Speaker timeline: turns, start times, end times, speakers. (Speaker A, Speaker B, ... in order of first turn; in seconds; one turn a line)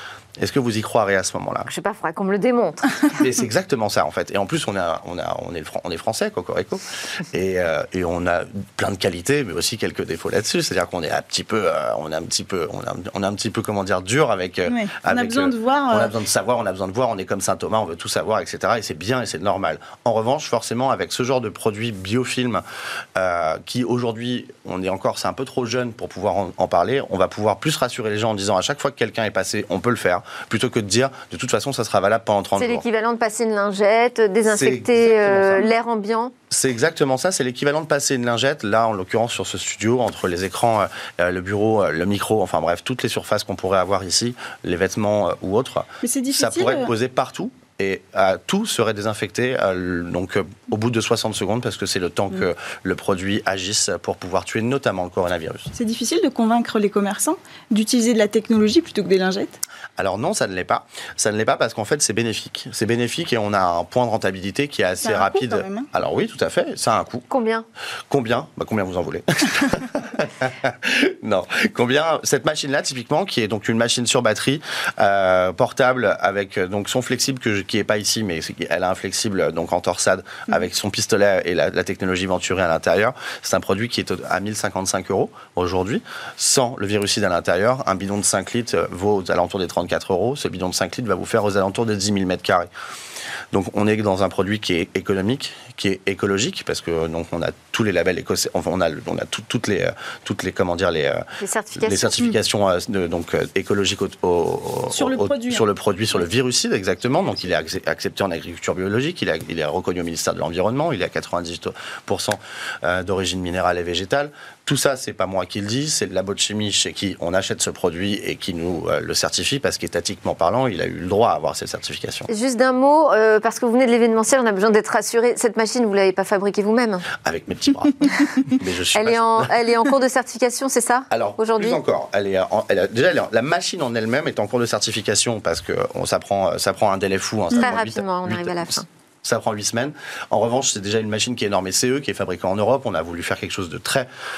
Speaker A: 0.4-1.7
Speaker B: 1.7-3.0
Speaker A: 3.1-22.6
Speaker C: 14.7-16.2
Speaker A: 23.1-32.8
Speaker B: 32.6-36.3
Speaker A: 34.5-35.7
Speaker A: 36.5-55.7
Speaker C: 46.0-46.9
Speaker C: 55.7-59.6
Speaker A: 60.0-67.2
Speaker C: 65.0-65.9
Speaker B: 67.3-67.7
Speaker A: 68.1-92.7
Speaker A: 93.5-122.3
Speaker B: 101.4-102.2
Speaker C: 104.9-106.2
Speaker B: 122.3-127.1
Speaker A: 127.2-129.5
Speaker B: 128.9-131.8
Speaker A: 131.1-144.1
Speaker B: 137.5-138.9